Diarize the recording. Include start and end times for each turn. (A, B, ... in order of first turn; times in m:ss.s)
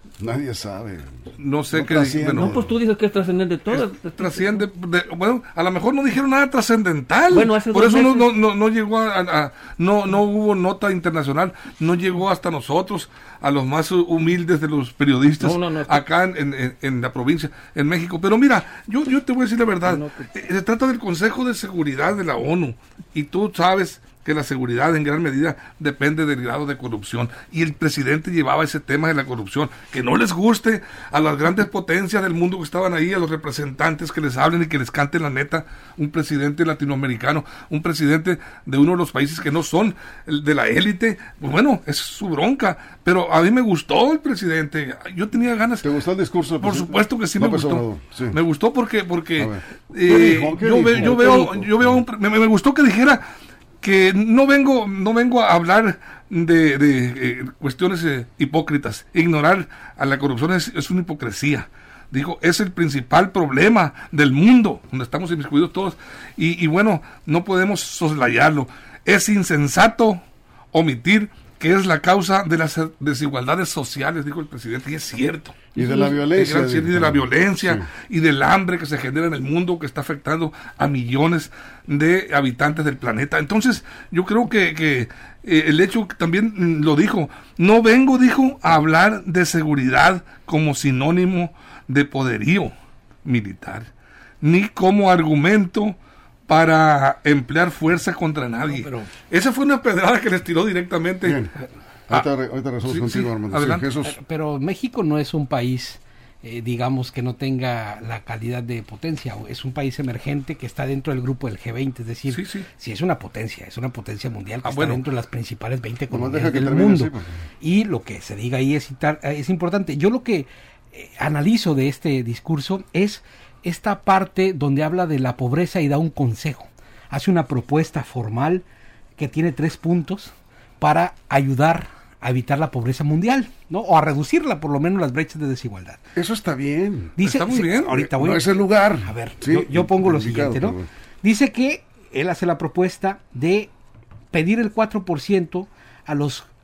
0:00.2-0:02.7 A
0:01.4-0:02.6 B
0:02.4-0:04.6 C
0:03.7-0:45.9 B
0:07.3-0:08.3 C
0:15.4-0:16.0 C
0:19.8-0:20.3 C
0:45.8-0:48.4 A
0:46.6-0:53.3 B
0:49.4-0:52.0 A
0:51.0-0:51.6 C
0:53.8-1:10.2 B
1:10.7-1:32.7 B
1:15.8-1:17.9 A
1:33.2-1:33.9 B
1:34.4-1:41.4 B
1:38.7-1:39.1 D
1:41.2-1:41.5 A
1:42.1-1:44.2 A
1:42.9-1:43.9 B
1:44.0-2:08.6 D
1:52.3-1:52.7 B
1:54.6-1:55.0 B
1:56.1-1:57.4 A
2:09.2-2:16.0 D
2:16.2-2:17.2 A
2:17.2-2:23.7 D
2:17.2-2:18.0 B
2:17.9-2:20.9 A
2:24.3-2:26.5 D